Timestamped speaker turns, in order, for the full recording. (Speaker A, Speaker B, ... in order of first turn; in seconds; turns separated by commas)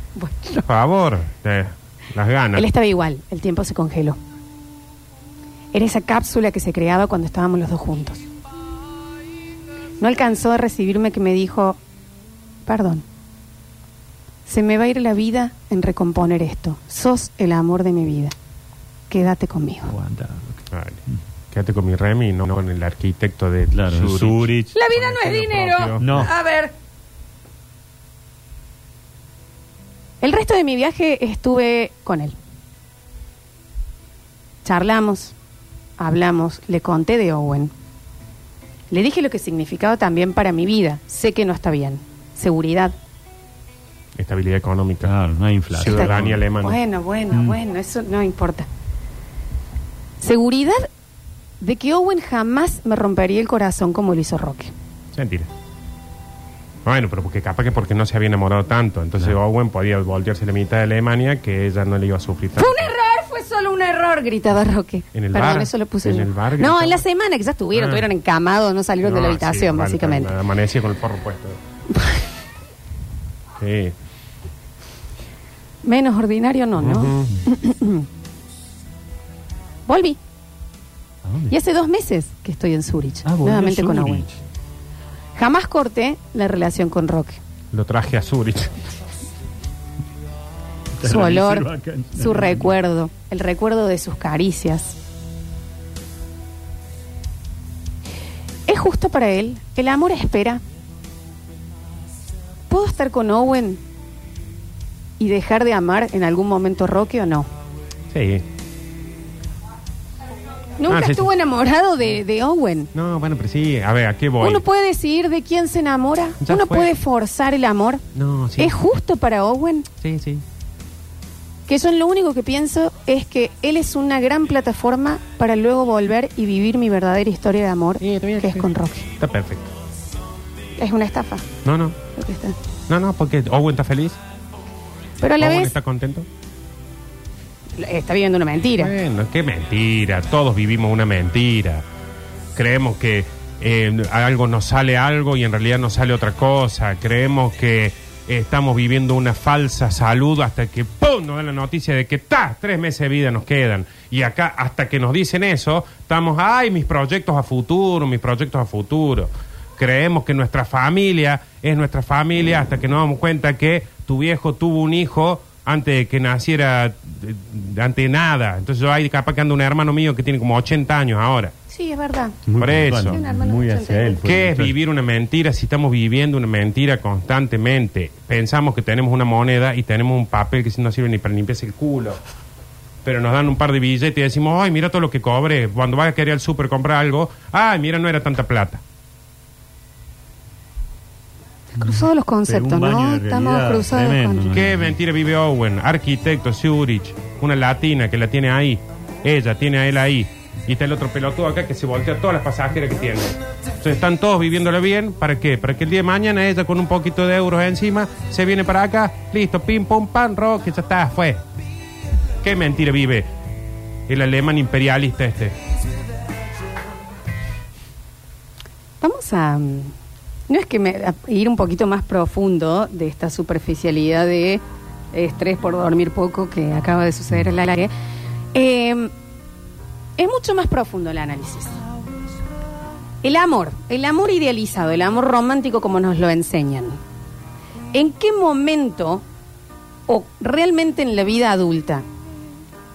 Speaker A: 0.2-0.7, Speaker B: 0.7-2.7, Speaker A: 2.6-4.2, Speaker A: 5.7-8.2, Speaker A: 10.0-11.8, Speaker A: 12.7-13.1, Speaker A: 14.5-18.4, Speaker A: 19.1-19.9, Speaker C: 19.9-20.6, Speaker B: 20.7-21.0, Speaker B: 21.5-26.3, Speaker C: 23.7-24.7, Speaker A: 24.7-26.7, Speaker C: 26.0-26.3, Speaker A: 30.2-32.4, Speaker A: 34.6-35.3, Speaker A: 36.0-37.7, Speaker A: 38.9-43.0, Speaker B: 44.2-45.1, Speaker C: 45.0-46.4, Speaker B: 45.7-46.8, Speaker A: 45.9-48.7, Speaker C: 47.3-47.6, Speaker A: 50.2-50.9, Speaker A: 51.6-54.7, Speaker B: 55.1-55.5, Speaker B: 56.9-62.9, Speaker A: 62.6-70.3, Speaker B: 65.1-67.0, Speaker B: 67.7-68.1, Speaker B: 69.0-71.6, Speaker B: 73.6-74.0, Speaker A: 75.8-78.1, Speaker B: 76.8-77.3, Speaker A: 79.9-80.2, Speaker C: 81.2-81.5, Speaker A: 81.5-84.3, Speaker C: 83.2-84.4, Speaker A: 85.4-87.4, Speaker B: 87.7-88.8, Speaker C: 91.0-92.7, Speaker A: 91.0-95.0, Speaker A: 98.7-100.6, Speaker A: 102.7-103.8, Speaker A: 105.2-107.5, Speaker B: 108.1-108.4, Speaker A: 110.8-112.9, Speaker B: 110.9-111.3, Speaker B: 112.9-114.6, Speaker A: 114.4-118.0, Speaker B: 116.4-116.9, Speaker B: 118.1-118.8, Speaker A: 118.6-119.9, Speaker B: 120.0-120.4, Speaker A: 121.7-129.1, Speaker B: 128.0-129.7, Speaker A: 130.8-131.5, Speaker B: 131.6-132.0, Speaker A: 132.2-132.6, Speaker B: 132.9-134.2, Speaker A: 135.2-135.7, Speaker B: 135.4-136.3, Speaker A: 137.8-138.9, Speaker B: 138.8-141.8, Speaker B: 142.6-171.5, Speaker A: 171.7-172.4, Speaker C: 172.5-174.7, Speaker B: 172.6-173.2, Speaker A: 173.1-174.2, Speaker B: 174.2-182.2, Speaker B: 183.0-188.8, Speaker A: 191.8-194.5, Speaker C: 191.8-194.9, Speaker B: 194.5-211.4, Speaker B: 212.4-213.3, Speaker B: 214.1-215.6, Speaker A: 219.0-219.9, Speaker A: 220.5-224.6, Speaker A: 225.1-227.9, Speaker A: 228.5-229.1, Speaker A: 230.2-231.8, Speaker A: 233.2-237.0, Speaker A: 237.9-239.2, Speaker A: 240.1-242.1